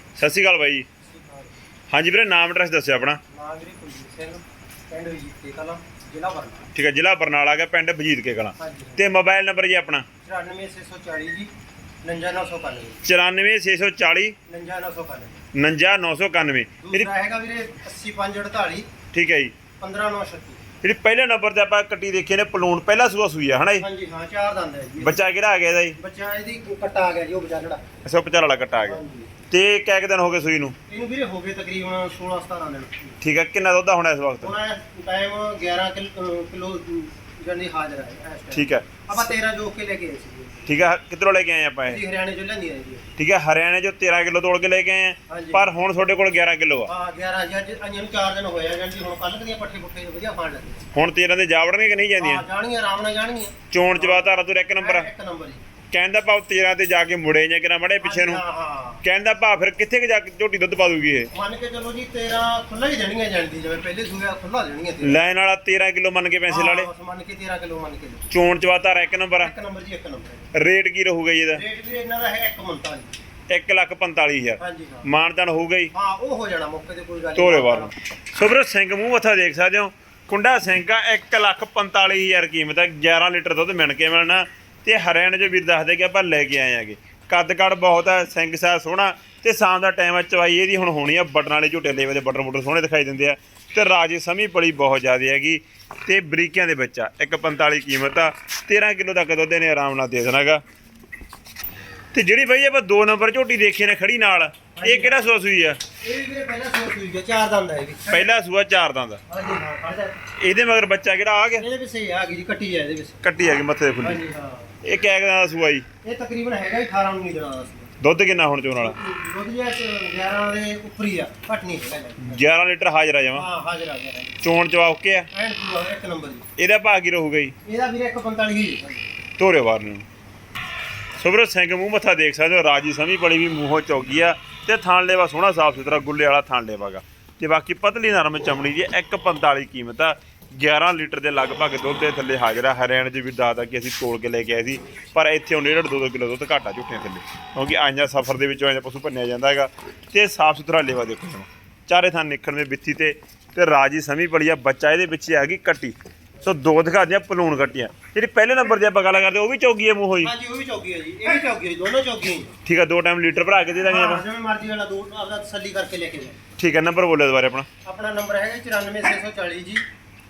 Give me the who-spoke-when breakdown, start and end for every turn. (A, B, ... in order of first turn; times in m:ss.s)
0:00.2-0:00.9 A
0:01.0-0:01.5 B
0:01.9-0:03.2 A
0:03.3-0:06.7 B
0:06.7-0:10.1 A
0:08.6-0:09.0 B
0:10.2-0:11.5 B
0:12.0-0:13.0 B
0:13.0-0:14.4 A
0:14.5-0:15.4 B
0:15.5-0:17.1 A
0:16.8-0:18.9 B
0:19.1-0:19.5 A
0:19.8-0:20.6 B
0:20.8-0:23.8 A
0:23.8-0:25.2 B
0:25.0-0:26.0 A
0:26.0-0:27.8 B
0:28.0-0:30.8 A
0:28.8-0:29.3 B
0:30.9-0:33.2 B
0:33.2-0:34.5 A
0:34.4-0:40.6 B
0:38.5-0:38.9 A
0:40.7-0:42.0 A
0:41.8-0:43.0 B
0:43.2-0:46.9 A
0:45.3-0:45.7 B
0:46.9-0:50.9 B
0:50.9-0:52.4 A
0:52.2-0:55.6 B
0:53.7-0:55.1 A
0:55.9-0:58.4 A
0:58.0-0:59.0 B
0:59.0-1:01.3 A
1:01.3-1:05.2 B
1:05.0-1:06.9 A
1:06.5-1:08.3 B
1:08.3-1:09.5 A
1:09.4-1:10.5 B
1:10.5-1:11.6 A
1:11.5-1:13.2 B
1:13.5-1:15.9 A
1:14.6-1:15.1 B
1:15.9-1:17.9 B
1:17.4-1:40.6 A
1:42.1-1:45.8 A
1:44.8-1:45.2 B
1:46.0-1:48.3 B
1:48.1-1:49.2 A
1:49.3-1:50.3 B
1:50.4-1:51.7 A
1:51.6-1:53.2 B
1:53.2-1:54.2 A
1:54.0-1:54.7 B
1:54.8-1:55.9 A
1:56.0-1:57.9 B
1:58.0-1:59.0 A
1:58.8-2:02.4 B
2:02.2-2:03.4 A
2:03.3-2:04.4 B
2:04.4-2:05.3 A
2:05.3-2:06.4 B
2:06.6-2:07.5 A
2:07.6-2:09.0 B
2:09.4-2:10.1 A
2:11.2-2:40.3 A
2:40.2-2:42.5 B
2:42.6-2:44.2 A
2:43.9-2:46.4 B
2:46.6-2:47.7 A
2:47.8-2:49.8 B